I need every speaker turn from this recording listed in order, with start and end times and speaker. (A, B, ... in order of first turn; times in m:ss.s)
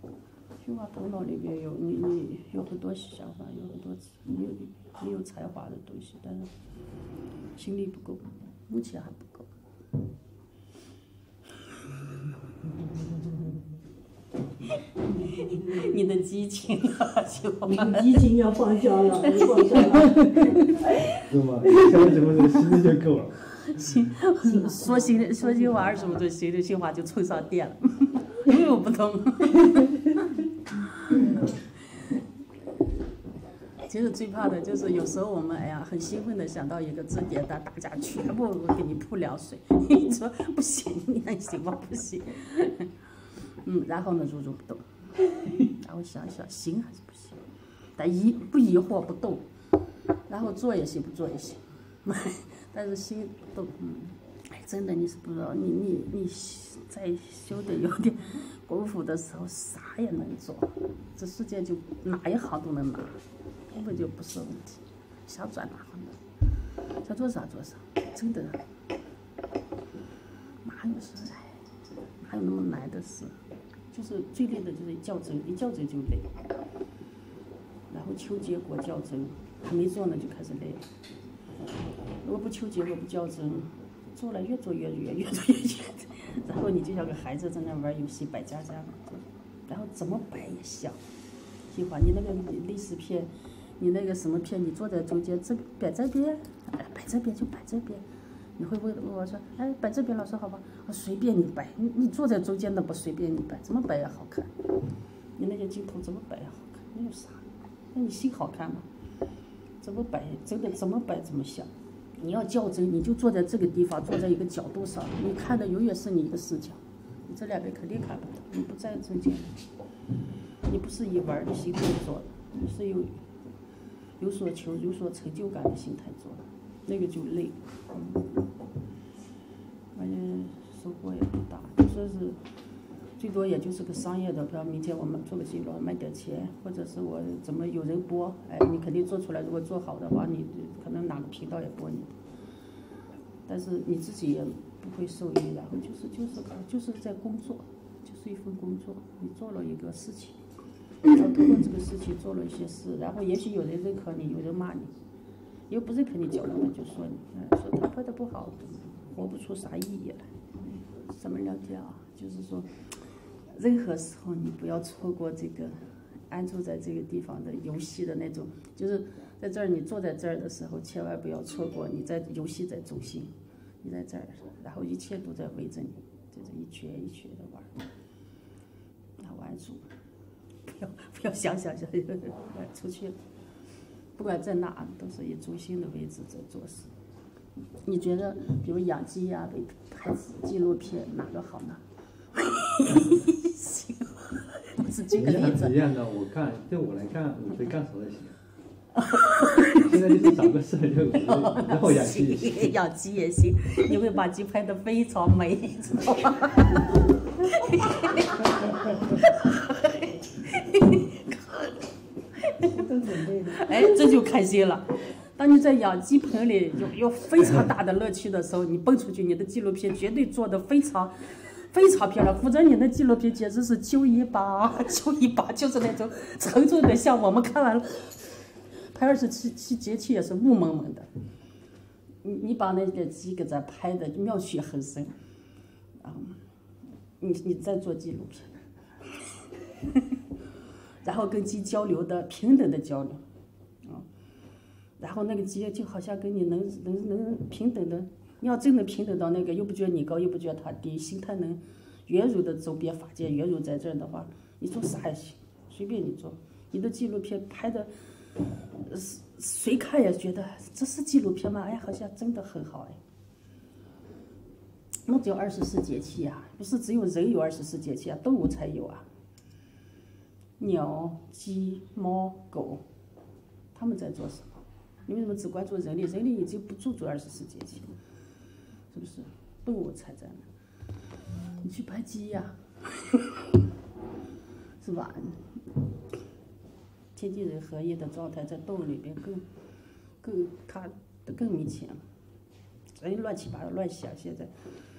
0:00.6-0:06.5 A
0:07.5-0:09.5 A
0:14.8-0:18.3 A
0:17.6-0:21.0 B
0:19.2-0:21.1 A
0:21.2-0:23.7 C
0:23.6-0:32.1 A
0:24.5-0:25.9 B
0:33.8-0:42.9 A
0:43.6-0:47.4 A
0:48.0-0:49.4 A
0:50.3-1:06.2 A
1:07.0-1:08.6 A
1:10.6-1:11.6 A
1:12.2-1:13.4 A
1:13.9-1:16.3 A
1:17.9-1:20.8 A
1:22.2-1:31.0 A
1:31.7-1:38.0 A
1:38.6-1:44.5 A
1:45.4-1:48.9 A
1:49.8-1:59.6 A
2:00.6-2:03.2 A
2:04.2-2:08.3 A
2:09.9-2:12.4 A
2:13.2-2:22.2 A
2:23.4-2:30.4 A
2:31.0-2:34.9 A
2:35.7-2:42.8 A
2:43.4-2:45.8 A
2:46.3-2:57.7 A
2:59.2-2:59.9 A
3:00.6-3:03.2 A
3:04.2-3:06.9 A
3:07.8-3:11.8 A
3:12.3-3:15.8 A
3:15.1-3:18.4 C
3:18.9-3:20.4 A
3:19.7-3:22.7 C
3:21.2-3:51.1 A
3:32.8-3:33.7 B
3:52.2-3:55.1 A
3:56.0-3:56.4 A
3:57.2-3:58.6 A
3:59.3-4:00.2 A
4:01.0-4:03.2 A
4:05.0-4:17.9 A
4:18.6-4:23.0 A
4:25.0-4:29.1 A
4:30.6-4:32.8 A
4:33.7-4:37.9 A
4:38.9-4:40.4 A
4:41.6-4:43.6 A
4:44.8-4:45.7 A
4:47.1-4:49.4 A
4:50.2-4:52.0 A
4:53.0-4:54.5 A